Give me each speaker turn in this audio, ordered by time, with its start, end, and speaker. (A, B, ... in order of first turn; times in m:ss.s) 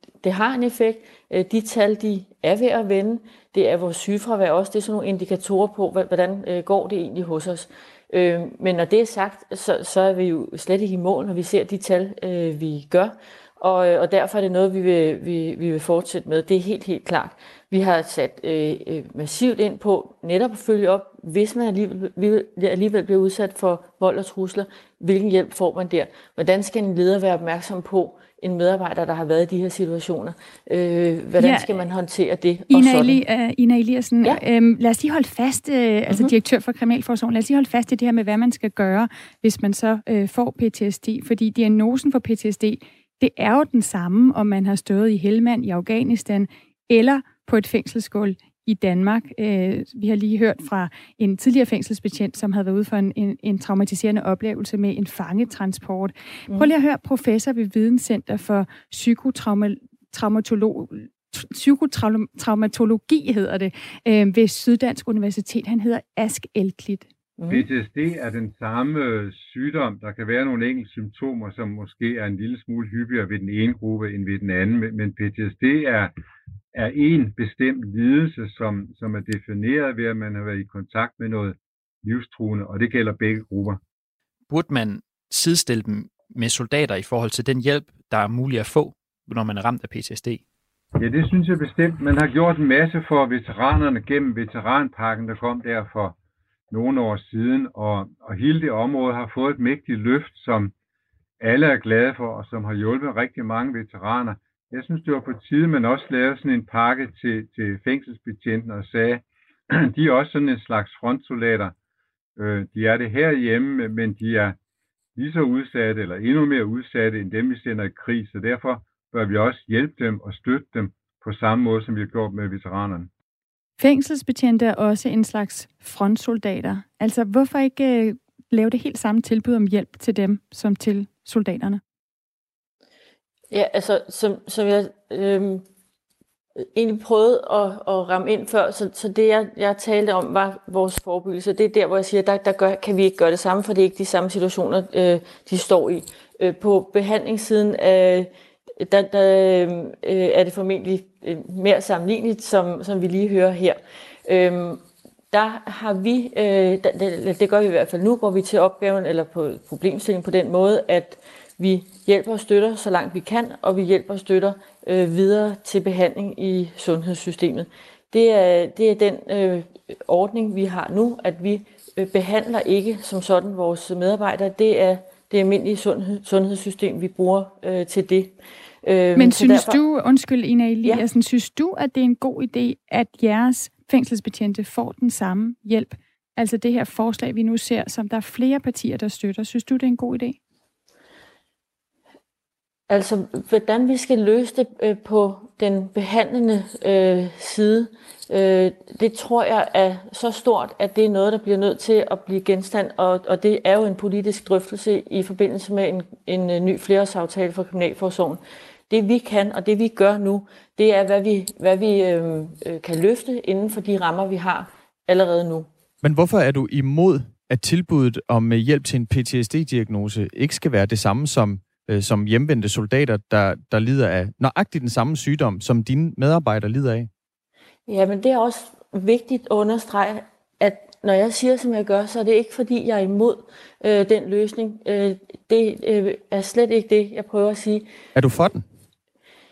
0:00.2-0:33.2 A
0:31.4-0:31.7 B
0:32.7-1:07.0 B
1:07.4-1:07.7 A
1:07.5-1:16.1 C
1:16.7-1:23.8 C
1:24.5-1:30.4 D
1:31.0-1:36.2 C
1:36.7-1:40.7 C
1:41.4-1:51.7 C
1:52.4-1:54.6 C
1:55.2-2:03.1 C
2:03.8-2:11.8 B
2:13.5-2:15.6 A
2:16.6-2:58.3 A
2:58.8-2:59.8 A
2:59.2-3:10.4 B
3:12.9-3:35.7 A
3:36.0-3:47.1 E
3:47.9-3:57.9 A
3:58.2-3:58.6 E